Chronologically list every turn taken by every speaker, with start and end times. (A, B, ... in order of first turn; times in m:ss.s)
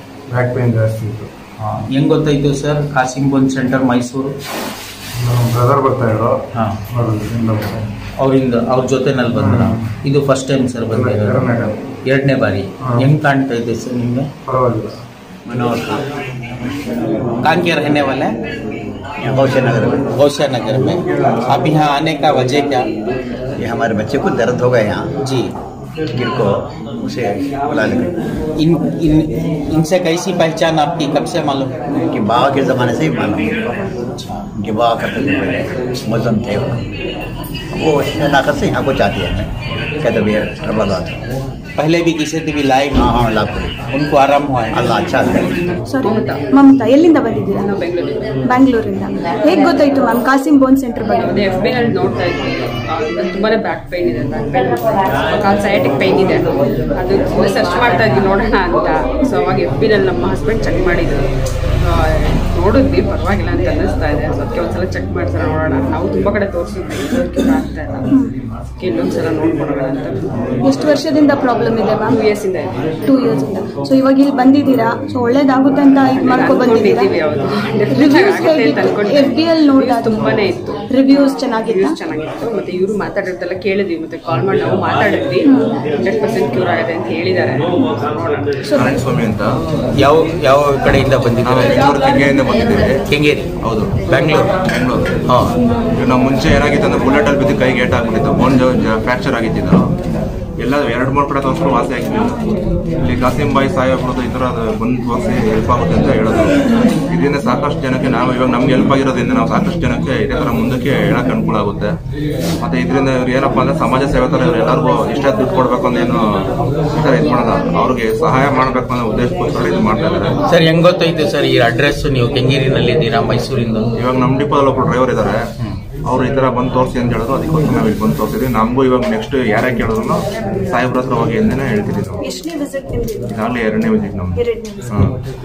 0:00.3-0:01.3 A
0:01.6-0:04.4 B
0:05.2-0:07.8 A
0:06.5-0:06.8 B
0:08.2-0:11.5 B
0:09.4-0:09.8 A
0:10.9-0:11.7 A
0:12.0-0:14.3 B
0:12.8-0:13.1 A
0:14.5-0:15.0 A
0:15.5-0:16.0 C
0:17.4-0:18.4 B
0:19.2-0:19.9 C
0:20.1-0:22.9 B
0:23.6-0:25.0 C
0:25.2-0:25.5 B
0:26.2-0:28.1 C
0:28.6-0:31.8 B
0:32.1-0:33.4 C
0:34.2-0:34.4 B
0:34.6-0:36.7 C
0:37.8-0:39.5 C
0:40.0-0:41.1 C
0:41.8-0:43.2 B
0:43.0-0:43.7 C
0:43.9-0:44.9 B
0:44.8-0:45.5 C
0:45.8-0:47.7 D
0:46.0-0:46.5 E
0:47.6-0:48.3 E
0:48.4-0:51.2 D
0:51.2-1:01.3 E
1:01.8-1:08.1 E
1:08.8-1:10.7 E
1:10.6-1:12.2 D
1:12.1-1:12.8 E
1:13.0-1:17.1 D
1:16.1-1:28.5 E
1:18.0-1:20.3 D
1:20.8-1:21.9 D
1:28.7-1:29.6 F
1:29.9-1:32.0 B
1:31.4-1:33.0 F
1:33.1-1:33.5 B
1:33.6-1:35.2 F
1:34.1-1:34.5 B
1:35.2-1:35.6 B
1:36.0-1:39.9 F
1:40.6-1:42.5 F
1:43.0-1:52.0 F
1:52.6-2:00.4 F
2:00.5-2:03.9 B
2:04.0-2:05.5 F
2:06.0-2:12.2 F
2:12.2-2:13.3 D
2:13.3-2:15.2 F
2:14.4-2:14.9 D